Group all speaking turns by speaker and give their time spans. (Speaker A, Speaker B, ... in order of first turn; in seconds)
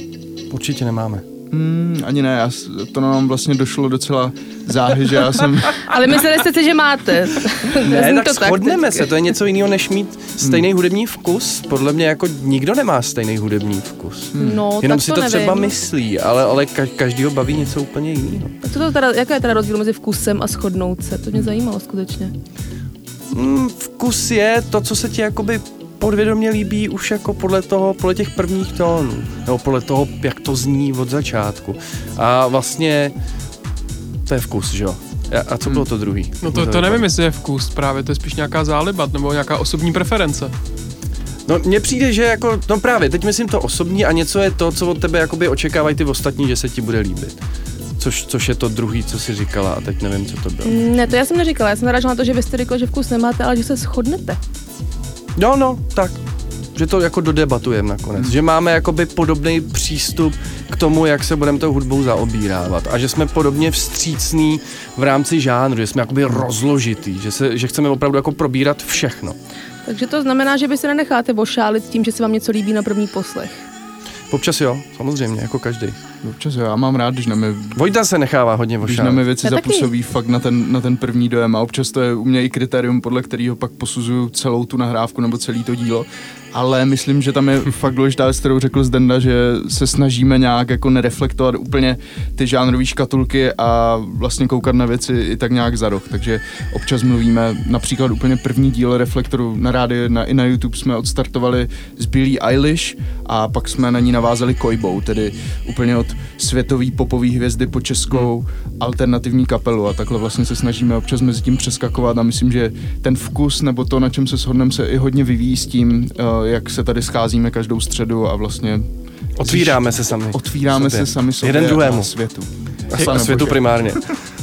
Speaker A: 0.5-1.2, 7.8-18.6, 23.3-33.1, 34.3-37.0, 41.5-47.4, 48.0-50.8, 55.4-56.2, 56.7-69.4, 74.3-76.0, 77.8-79.2, 119.4-122.1, 122.9-124.0
Speaker B: 1.5-5.8, 10.4-10.7, 14.3-14.6, 76.2-77.9, 78.8-118.9, 119.4-124.0
Speaker C: 5.8-9.1, 14.4-15.7, 18.6-22.3, 50.6-54.4, 69.8-73.7, 79.4-79.9
Speaker D: 36.4-40.5